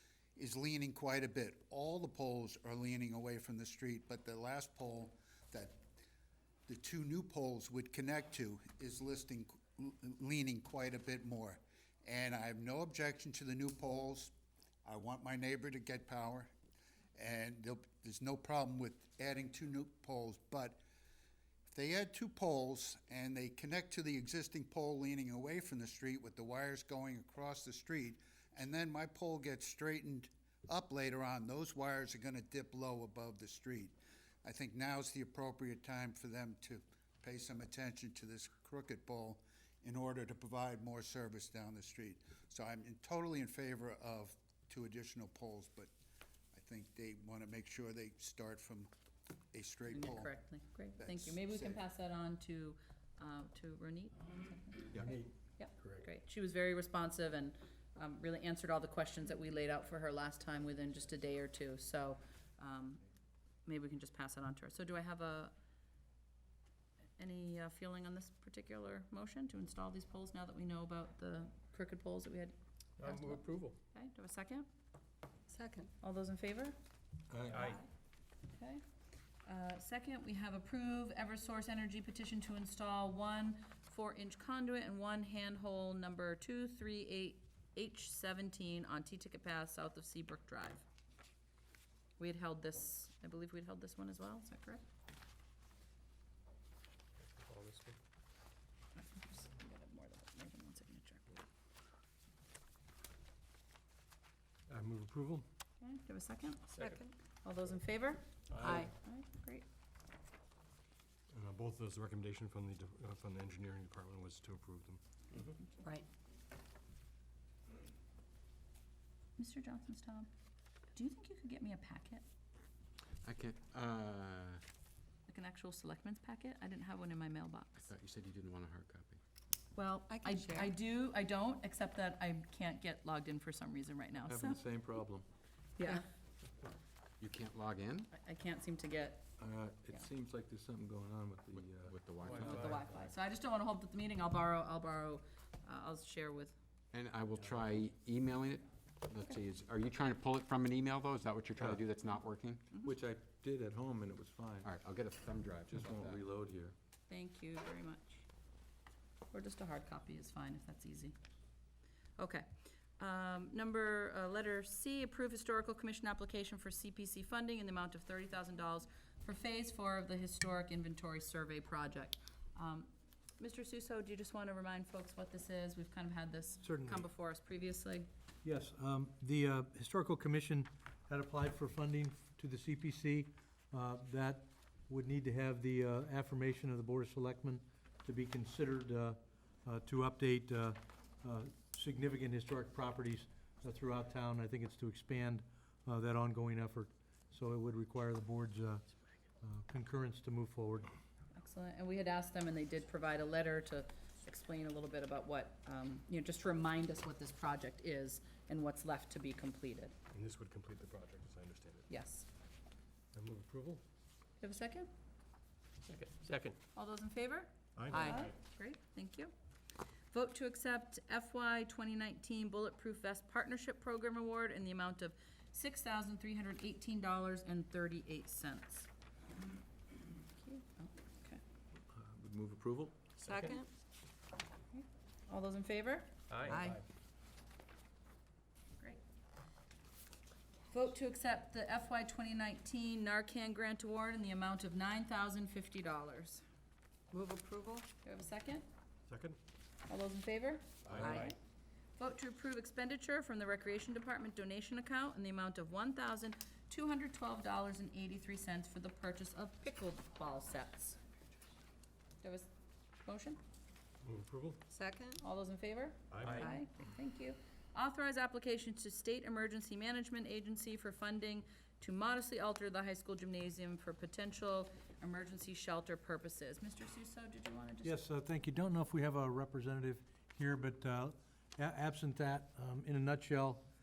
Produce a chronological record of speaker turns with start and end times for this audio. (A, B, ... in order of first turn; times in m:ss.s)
0:00.4-0:05.8 A
0:06.7-0:14.3 A
0:14.8-0:16.5 A
0:17.2-0:20.8 A
0:21.7-0:45.9 A
0:46.5-0:48.9 A
0:49.5-0:50.3 A
0:49.9-1:03.0 B
0:51.0-0:51.8 A
1:03.6-1:05.5 B
1:07.2-1:14.6 B
1:13.0-1:13.7 C
1:15.5-1:15.9 D
1:16.0-1:16.8 B
1:17.3-1:17.6 E
1:17.5-1:17.8 B
1:17.5-1:17.8 C
1:18.5-1:18.8 B
1:19.4-1:30.8 B
1:32.2-1:34.8 B
1:37.4-1:37.9 C
1:39.0-1:41.4 B
1:44.7-1:45.4 C
1:45.8-1:46.8 B
1:46.8-1:47.1 D
1:47.4-1:49.6 B
1:48.5-1:48.9 D
1:48.6-1:48.8 C
1:51.3-1:55.0 C
1:55.8-1:56.0 D
1:59.4-2:00.3 B
2:00.9-2:02.2 B
2:03.2-2:04.6 F
2:05.3-2:07.8 B
2:07.8-2:09.2 F
2:09.7-2:14.6 B
2:10.1-2:10.7 D
2:14.3-2:15.2 E
2:17.2-2:18.1 F
2:18.1-2:19.3 B
2:19.4-2:22.8 E
2:21.5-2:23.1 F
2:22.3-2:26.5 B
2:26.9-2:32.6 F
2:31.6-2:31.8 E
2:32.8-2:34.7 E
2:34.6-2:36.2 F
2:35.7-2:36.7 E
2:37.1-2:38.2 B
2:39.3-2:41.1 B
2:42.2-2:42.4 B
2:43.0-2:58.1 B
2:56.6-2:57.0 G
2:58.4-3:18.8 G
3:19.4-3:20.9 G
3:21.4-3:29.9 B
3:30.1-3:31.9 C
3:31.9-3:32.2 B
3:33.1-3:33.8 C
3:34.4-3:34.9 B
3:35.9-3:36.5 C
3:36.7-3:39.3 B
3:37.8-3:38.2 C
3:37.9-3:38.3 D
3:40.1-3:48.9 B
3:50.4-3:51.4 B
3:51.9-3:53.0 E
3:53.2-3:53.7 D
3:53.2-3:53.6 C
3:54.7-3:56.1 B
3:56.3-3:56.8 C
3:56.4-3:56.8 D
4:00.7-4:06.4 B
4:07.1-4:07.9 D
4:08.0-4:08.6 B
4:09.1-4:09.4 C
4:09.9-4:11.4 B
4:10.9-4:11.3 C
4:10.9-4:11.3 D
4:12.0-4:21.0 B
4:22.2-4:22.5 B
4:23.0-4:23.4 B
4:24.0-4:24.6 C
4:24.7-4:25.2 D
4:25.2-4:38.0 B
4:26.1-4:26.5 C
4:26.3-4:26.6 D
4:37.8-4:43.6 G